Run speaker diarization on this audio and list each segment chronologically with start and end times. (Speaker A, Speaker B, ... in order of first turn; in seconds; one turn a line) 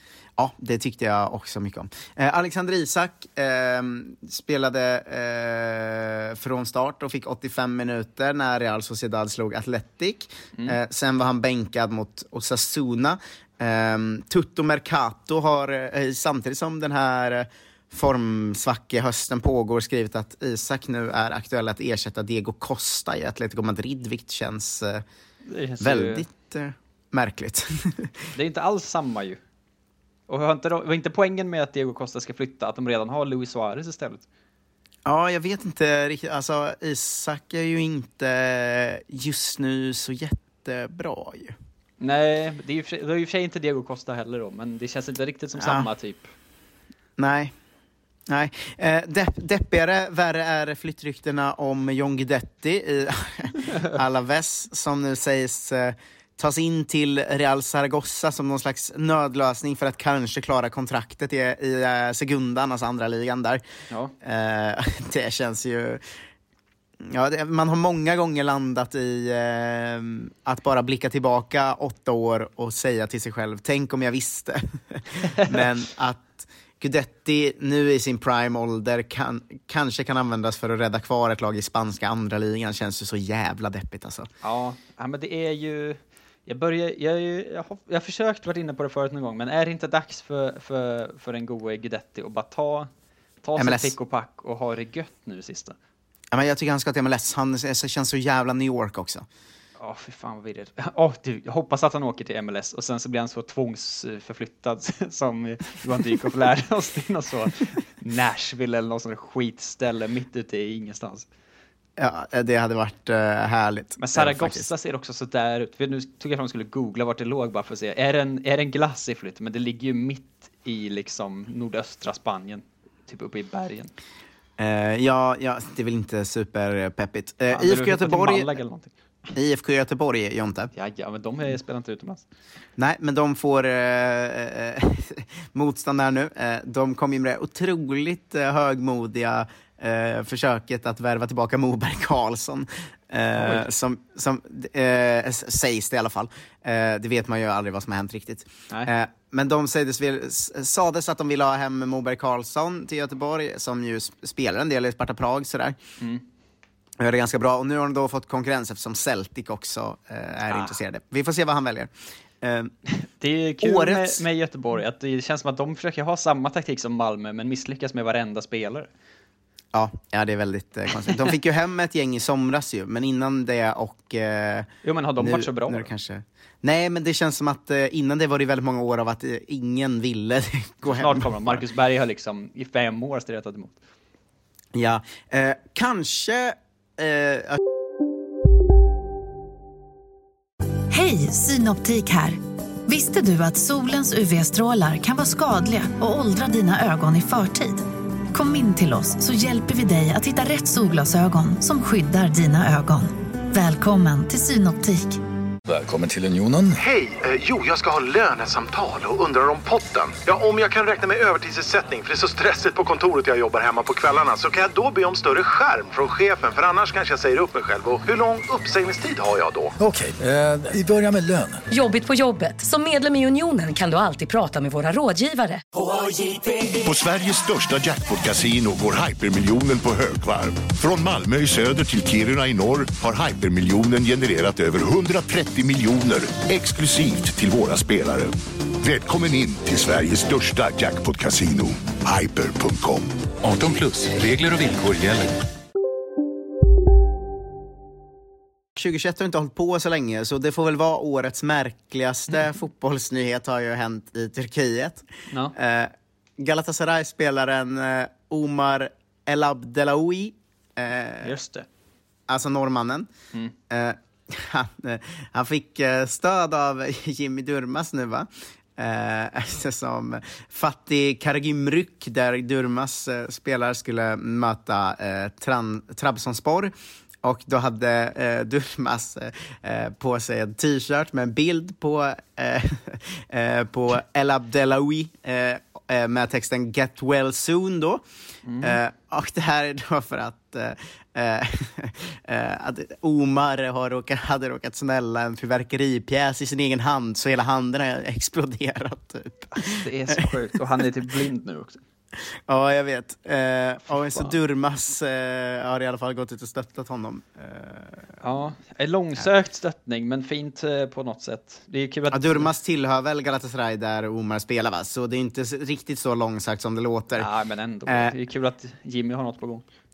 Speaker A: 0.4-25.0
Speaker B: 25.5-26.2
Speaker A: 25.8-28.1
Speaker B: 28.3-29.4
Speaker B: 30.3-34.2
Speaker A: 35.0-41.5
Speaker B: 42.0-46.3
Speaker A: 45.5-45.9
Speaker A: 47.2-47.5
Speaker A: 48.3-63.6
Speaker A: 64.2-66.0
Speaker A: 67.0-84.3
Speaker B: 84.4-92.9
Speaker B: 93.4-95.8
Speaker A: 93.6-93.9
Speaker A: 96.3-99.2
Speaker B: 99.8-111.3
Speaker A: 112.0-114.7
Speaker B: 114.0-123.9
Speaker A: 124.6-128.5
Speaker B: 127.5-128.9
Speaker A: 129.3-130.7
Speaker B: 130.7-132.2
Speaker A: 132.8-155.8
Speaker B: 143.4-143.7
Speaker A: 157.0-162.7
Speaker B: 160.5-160.7
Speaker B: 163.2-168.9
Speaker A: 163.6-164.2
Speaker A: 169.7-181.6
Speaker B: 171.0-171.3
Speaker B: 174.8-175.9
Speaker B: 180.8-183.8
Speaker A: 184.7-187.6
Speaker C: 190.9-205.2
Speaker D: 205.7-206.8
Speaker E: 206.8-219.7
Speaker D: 219.8-221.6
Speaker F: 221.7-225.6
Speaker G: 226.8-243.1
Speaker D: 243.4-245.3
Speaker A: 248.8-261.3
Speaker B: 261.2-261.6
Speaker A: 262.3-263.1
Speaker A: 263.7-276.7
Speaker A: 277.2-288.0
Speaker B: 288.4-288.8
Speaker A: 288.6-300.2
Speaker B: 299.5-301.8
Speaker A: 302.3-308.1
Speaker B: 304.1-304.4
Speaker B: 308.2-312.5
Speaker A: 312.1-317.3
Speaker B: 317.1-319.6
Speaker A: 317.9-318.1